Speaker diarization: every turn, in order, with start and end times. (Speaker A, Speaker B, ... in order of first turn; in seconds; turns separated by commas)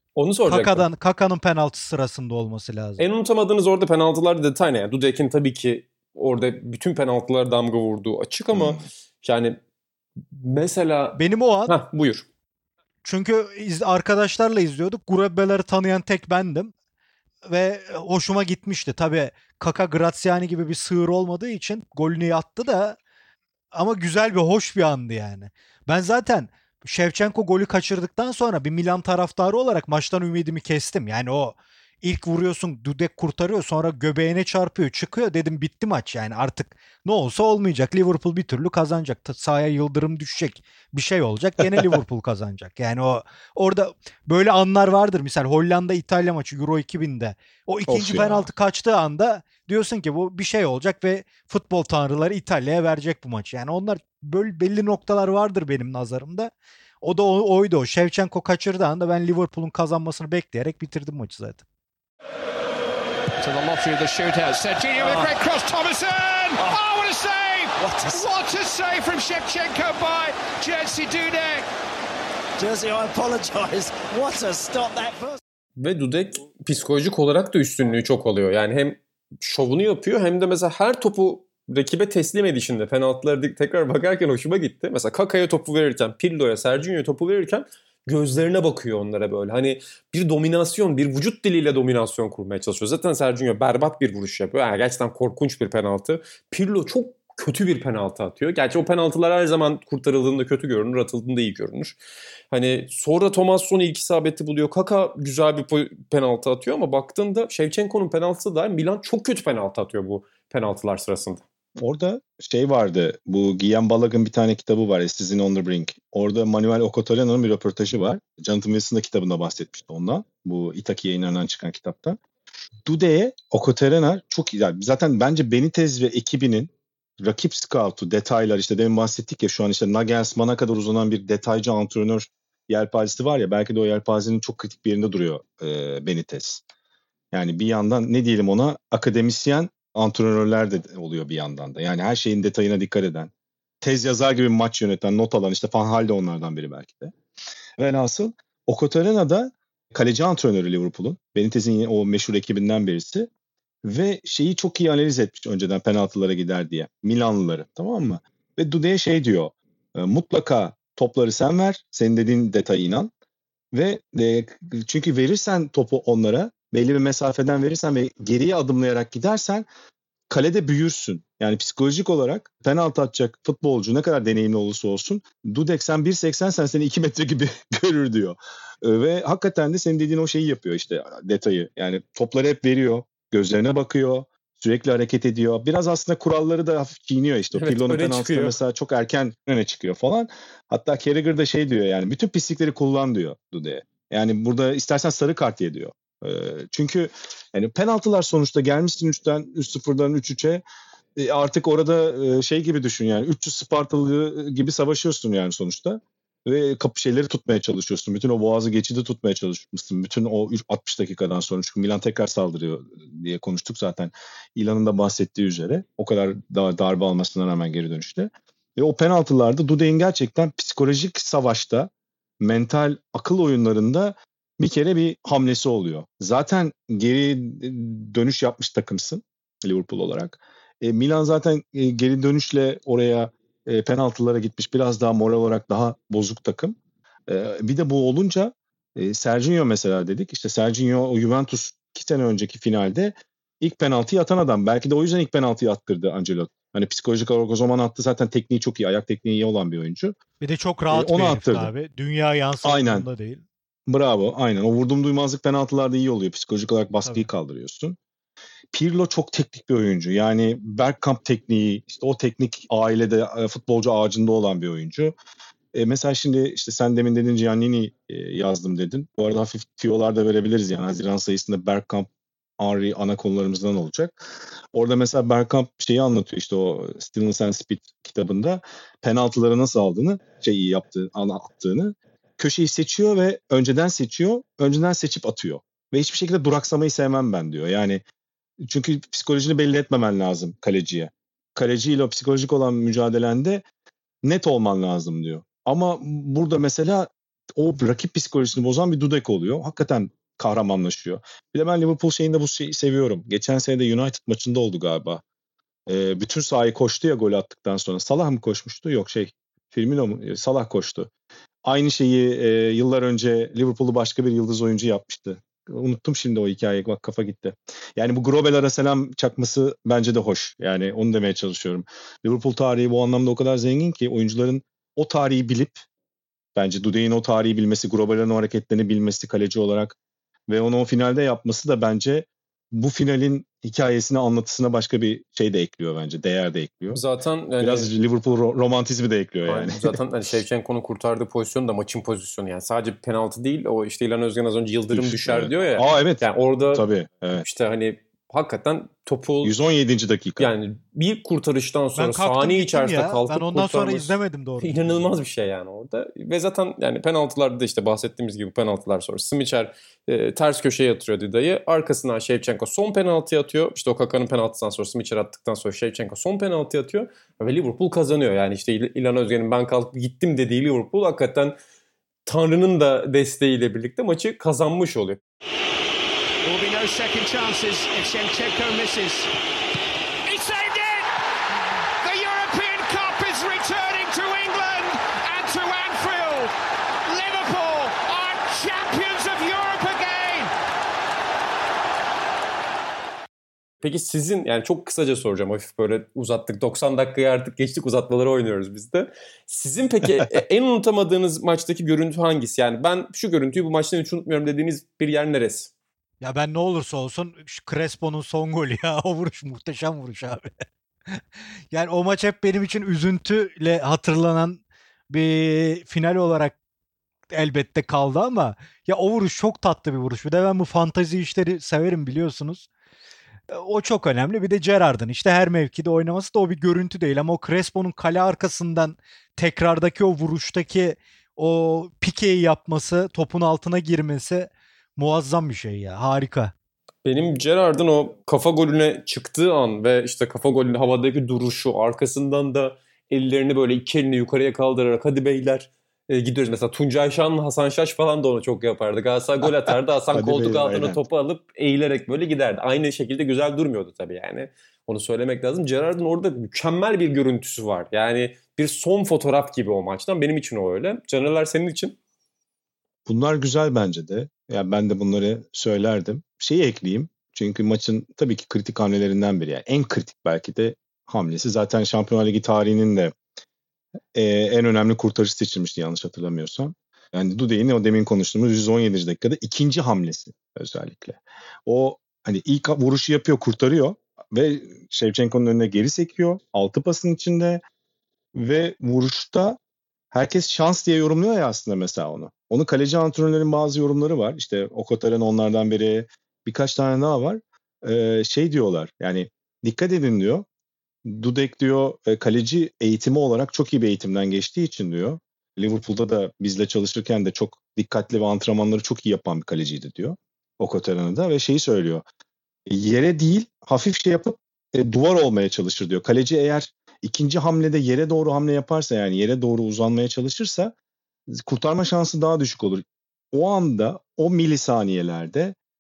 Speaker A: 0.2-0.9, Speaker B: 0.5-3.1, Speaker A: 3.0-9.6, Speaker C: 8.5-8.8, Speaker A: 10.3-12.3, Speaker B: 11.2-11.8, Speaker B: 13.0-16.7, Speaker B: 17.4-23.0, Speaker B: 23.7-61.6, Speaker C: 47.9-48.5, Speaker D: 63.4-71.7, Speaker E: 72.6-75.3, Speaker A: 75.8-102.0, Speaker A: 102.5-111.4, Speaker C: 111.8-122.2, Speaker C: 122.8-136.6, Speaker C: 137.3-143.3, Speaker C: 143.8-147.1, Speaker C: 147.8-153.3, Speaker C: 153.8-163.1, Speaker C: 163.7-169.7, Speaker C: 170.3-200.6, Speaker A: 187.5-188.6, Speaker C: 201.2-221.9, Speaker C: 222.4-236.8, Speaker C: 237.3-250.2, Speaker B: 250.4-253.4, Speaker C: 250.9-251.7, Speaker C: 252.6-253.1, Speaker C: 253.9-258.0, Speaker C: 258.7-265.1, Speaker C: 265.7-288.0, Speaker C: 288.6-293.6, Speaker C: 294.2-305.2, Speaker C: 305.9-311.1, Speaker C: 311.6-325.9, Speaker C: 326.6-330.0, Speaker C: 330.5-337.0, Speaker A: 336.9-337.9, Speaker C: 337.6-340.0, Speaker A: 339.5-346.9, Speaker C: 344.9-347.5, Speaker A: 347.4-349.6, Speaker C: 349.4-350.5, Speaker A: 350.4-371.6, Speaker B: 352.0-355.1, Speaker A: 372.3-375.2, Speaker D: 376.4-379.3, Speaker D: 380.3-381.1, Speaker D: 382.0-386.5, Speaker D: 387.1-390.5, Speaker A: 393.8-405.7, Speaker B: 406.2-410.5, Speaker B: 411.7-416.6, Speaker B: 417.3-422.7, Speaker B: 423.5-436.5, Speaker A: 437.1-462.0, Speaker C: 449.7-451.0, Speaker C: 463.1-473.1, Speaker C: 474.1-487.6, Speaker C: 488.4-489.6, Speaker C: 490.1-500.5, Speaker C: 501.1-512.0, Speaker C: 512.7-520.7, Speaker C: 521.3-525.6